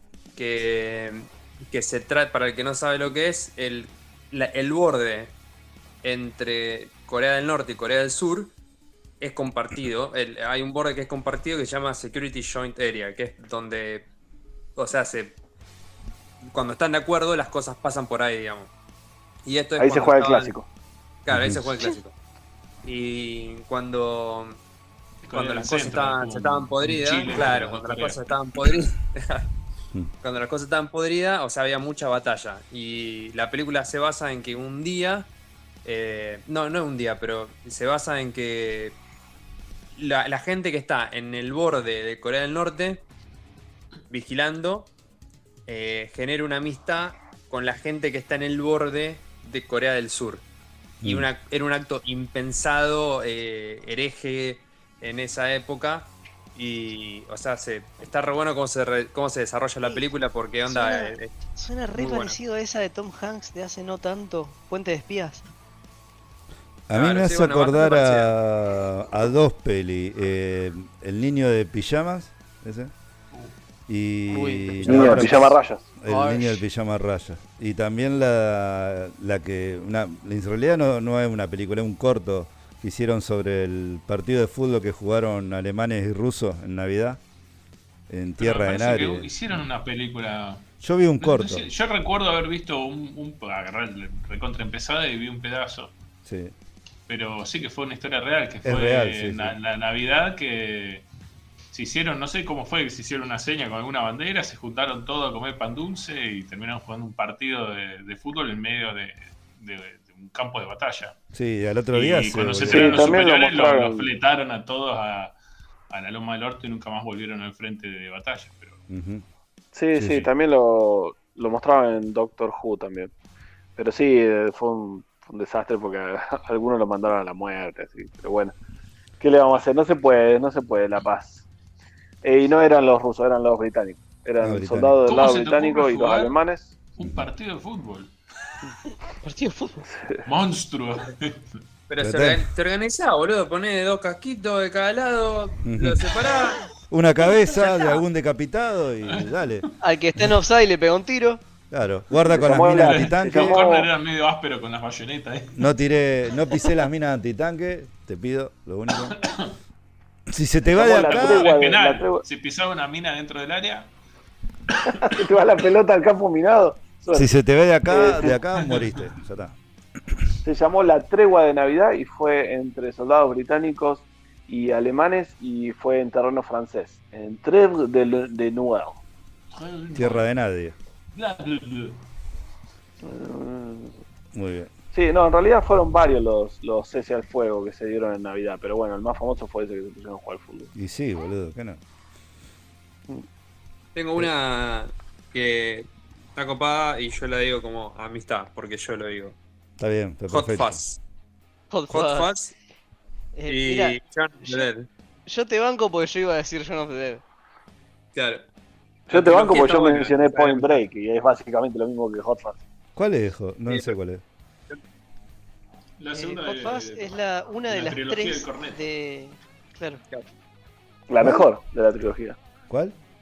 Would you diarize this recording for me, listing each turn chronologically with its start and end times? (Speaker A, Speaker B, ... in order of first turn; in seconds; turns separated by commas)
Speaker A: 0.3-5.3, Speaker A: 6.0-8.5, Speaker A: 9.2-14.1, Speaker A: 14.8-15.4, Speaker A: 16.4-18.7, Speaker A: 19.4-20.5, Speaker B: 19.8-20.7, Speaker A: 21.2-22.1, Speaker C: 21.3-21.7, Speaker A: 22.8-24.6, Speaker D: 25.2-28.2, Speaker A: 25.3-29.5, Speaker A: 30.2-35.3, Speaker A: 35.8-39.0, Speaker A: 39.9-43.0, Speaker A: 44.1-44.9, Speaker A: 45.7-50.5, Speaker A: 51.0-61.3, Speaker E: 60.6-65.4, Speaker A: 62.0-62.4, Speaker C: 66.9-72.9, Speaker A: 66.9-68.3, Speaker C: 73.9-87.2, Speaker E: 74.3-75.5, Speaker B: 74.8-75.8, Speaker E: 76.0-76.6, Speaker C: 88.1-89.5, Speaker D: 88.4-90.7, Speaker C: 90.8-91.7, Speaker D: 91.2-95.9, Speaker C: 96.2-96.5, Speaker D: 97.1-101.0, Speaker C: 98.6-99.5, Speaker D: 101.7-111.1, Speaker C: 111.3-113.2, Speaker D: 111.9-115.3, Speaker B: 112.7-114.1, Speaker D: 115.9-118.8, Speaker C: 118.9-119.2, Speaker B: 119.7-123.1, Speaker C: 119.9-120.3, Speaker B: 123.8-128.5, Speaker B: 129.2-131.4, Speaker B: 132.2-136.7, Speaker C: 134.4-135.0, Speaker D: 135.1-136.3, Speaker D: 136.9-138.1, Speaker C: 137.0-137.2, Speaker E: 139.2-139.8, Speaker B: 139.9-140.2, Speaker D: 140.2-141.4, Speaker A: 141.9-146.6, Speaker C: 142.0-142.4, Speaker C: 145.6-146.0, Speaker C: 146.9-149.7, Speaker E: 149.8-151.4, Speaker C: 151.7-153.6, Speaker B: 152.2-153.9, Speaker D: 152.5-155.7, Speaker C: 155.6-159.2, Speaker D: 158.9-159.5, Speaker C: 160.3-161.5, Speaker B: 160.7-162.2, Speaker D: 160.8-163.9, Speaker D: 164.8-165.2, Speaker B: 164.9-167.3, Speaker C: 167.1-169.6, Speaker B: 167.9-168.4, Speaker D: 168.6-169.0, Speaker B: 170.4-179.0, Speaker D: 179.5-180.2, Speaker C: 179.9-180.7, Speaker D: 181.1-182.0, Speaker B: 183.0-183.9, Speaker C: 184.3-184.7, Speaker B: 184.9-190.7, Speaker C: 190.7-191.8, Speaker A: 193.9-199.3, Speaker C: 199.8-200.8, Speaker A: 200.3-201.0, Speaker E: 201.7-202.3, Speaker A: 201.9-202.5, Speaker E: 203.3-204.7, Speaker A: 203.5-204.9, Speaker E: 205.3-207.2, Speaker A: 208.1-208.4, Speaker B: 209.1-212.6, Speaker A: 209.1-210.8, Speaker C: 212.9-214.2, Speaker D: 216.0-217.2, Speaker E: 216.1-220.0, Speaker D: 217.7-218.8, Speaker B: 221.1-222.4, Speaker C: 222.7-222.9